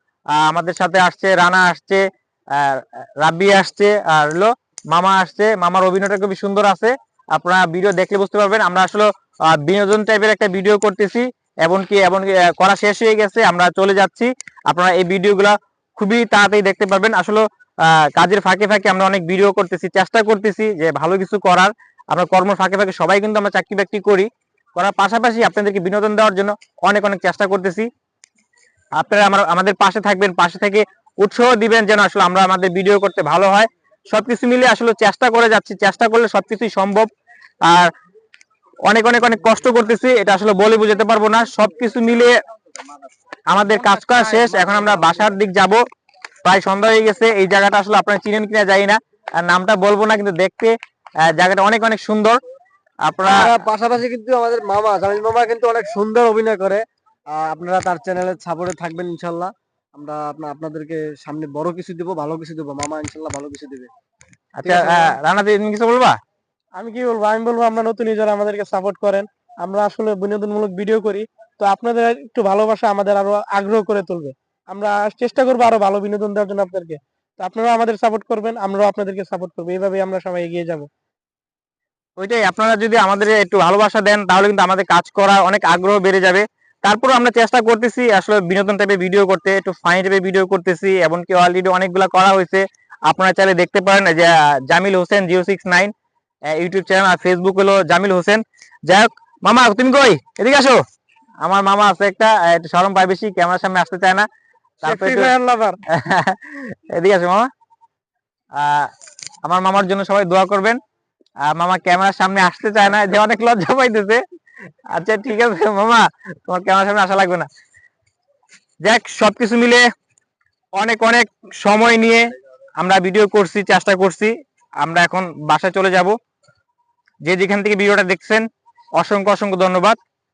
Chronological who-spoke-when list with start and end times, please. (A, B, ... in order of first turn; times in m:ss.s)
0:00.3-0:27.9 A
0:29.0-0:37.1 A
0:37.6-0:37.9 A
0:38.9-0:42.3 A
0:43.5-0:45.8 A
0:46.4-0:50.8 A
0:51.3-0:52.4 A
0:53.0-0:53.5 A
0:53.2-0:56.8 B
0:57.3-1:03.9 B
1:04.6-1:06.2 A
1:04.6-1:05.0 B
1:06.8-1:20.9 C
1:22.2-1:35.9 A
1:36.5-1:40.8 A
1:41.4-1:44.3 A
1:44.8-1:45.3 A
1:44.8-1:45.8 C
1:45.9-1:47.5 A
1:48.6-1:48.9 A
1:49.4-1:50.8 A
1:51.4-1:54.2 A
1:54.9-1:57.5 A
1:58.8-1:59.9 A
2:00.8-2:06.2 A
2:07.2-2:08.5 A
2:09.0-2:10.0 A